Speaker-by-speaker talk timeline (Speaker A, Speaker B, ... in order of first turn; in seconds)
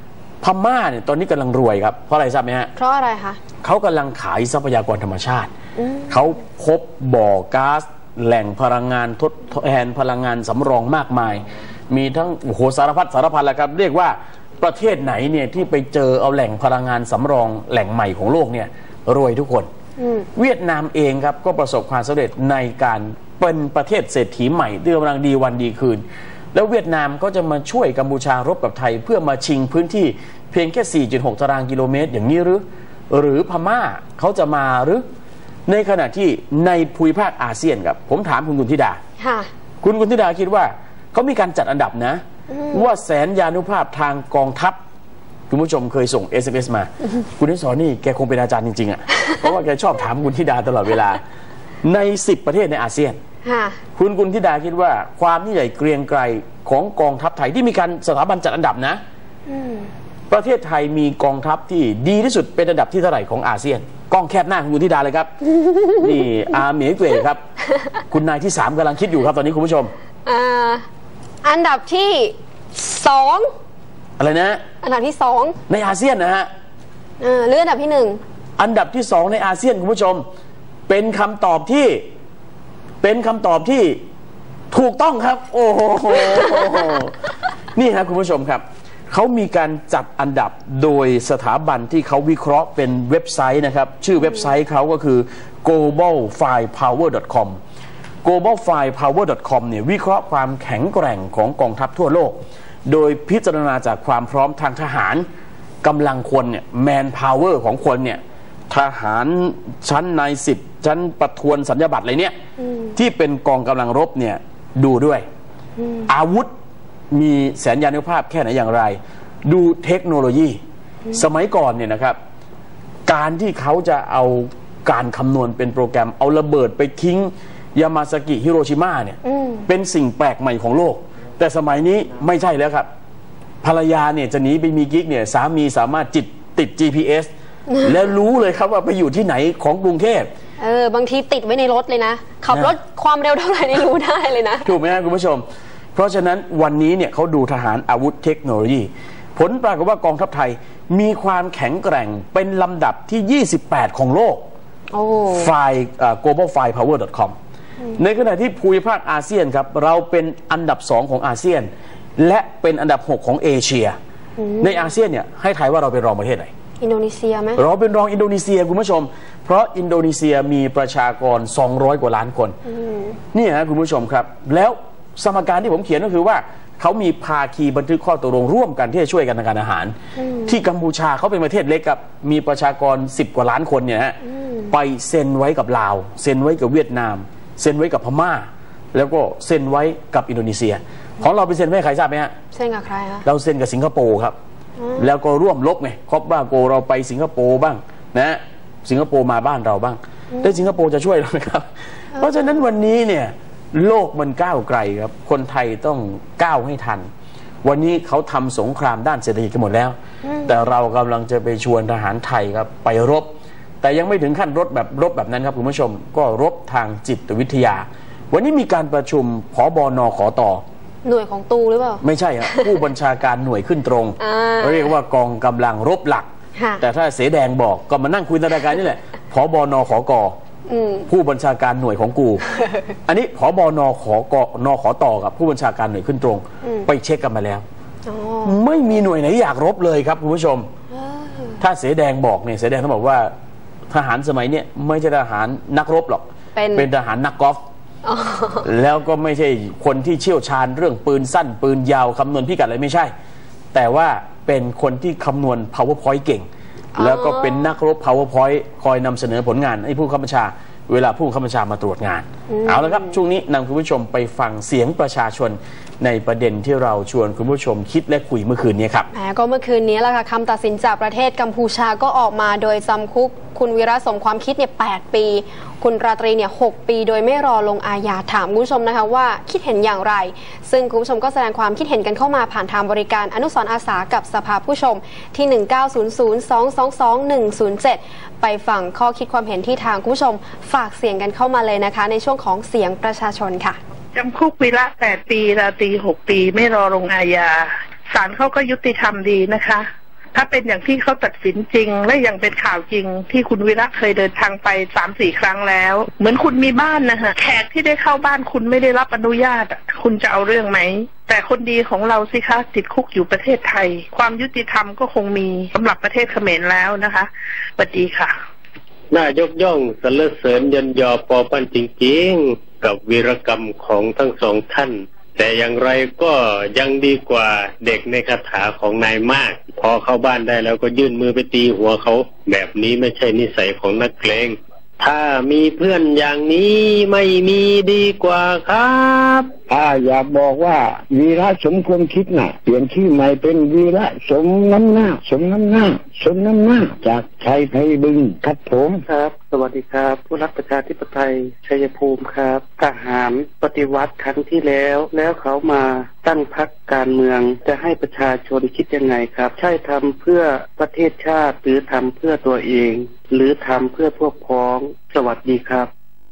Speaker A: 0.4-2.7, 3.6-5.5, 6.1-19.7, 20.4-26.0, 26.5-35.0, 35.7-39.0, 39.8-44.8, 45.5-51.2, 51.8-53.2, 54.0-59.0, 60.3-65.3, 65.9-67.4, 68.1-69.9, 74.2-74.6, 75.7-76.5, 78.6-80.2, 80.9-82.0, 83.0-84.0, 84.7-87.2, 87.7-97.6, 98.2-102.3, 102.9-105.2, 105.8-112.3, 113.0-115.2, 116.1-116.5, 117.1-120.6, 121.1-122.2, 123.1-132.9, 133.6-137.3, 137.8-140.3, 144.6-145.4, 145.9-154.4, 155.3-157.3, 158.0-164.0, 164.6-166.5, 167.6-172.5, 173.3-179.9, 180.5-184.2, 184.7-192.3, 193.2-194.3, 195.0-201.7, 202.2-207.1, 207.6-213.3, 213.8-220.6, 222.0-226.3, 226.8-230.3, 231.1-232.4, 233.1-237.6, 238.4-240.7, 241.6-243.3, 243.9-246.2, 246.7-247.6, 248.6-253.1, 253.7-269.1
Speaker B: 2.8-3.4, 5.8-6.2, 20.0-20.3, 39.2-39.5, 42.5-42.9, 53.4-53.8, 59.5-59.9, 65.7-66.0, 70.2-70.8, 71.4-73.5, 74.8-75.5, 77.2-78.2, 94.2-94.5, 112.6-112.9, 115.8-116.1, 129.2-129.7, 137.7-138.0, 140.6-144.7, 154.9-155.5, 164.4-164.8, 166.8-167.6, 172.7-173.2, 180.2-180.6, 184.2-184.7, 192.5-193.2, 194.8-195.1, 202.1-202.6, 210.2-210.6, 221.0-222.7, 224.2-224.9, 226.6-226.8, 230.7-231.1, 232.5-232.8, 236.6-236.9, 238.1-238.6, 240.9-241.6, 246.5-246.9, 248.0-248.7, 256.9-257.7, 262.5-263.2, 269.1-293.8
Speaker C: 294.1-318.3
Speaker D: 319.1-339.5
Speaker E: 339.7-349.0
Speaker F: 349.1-365.9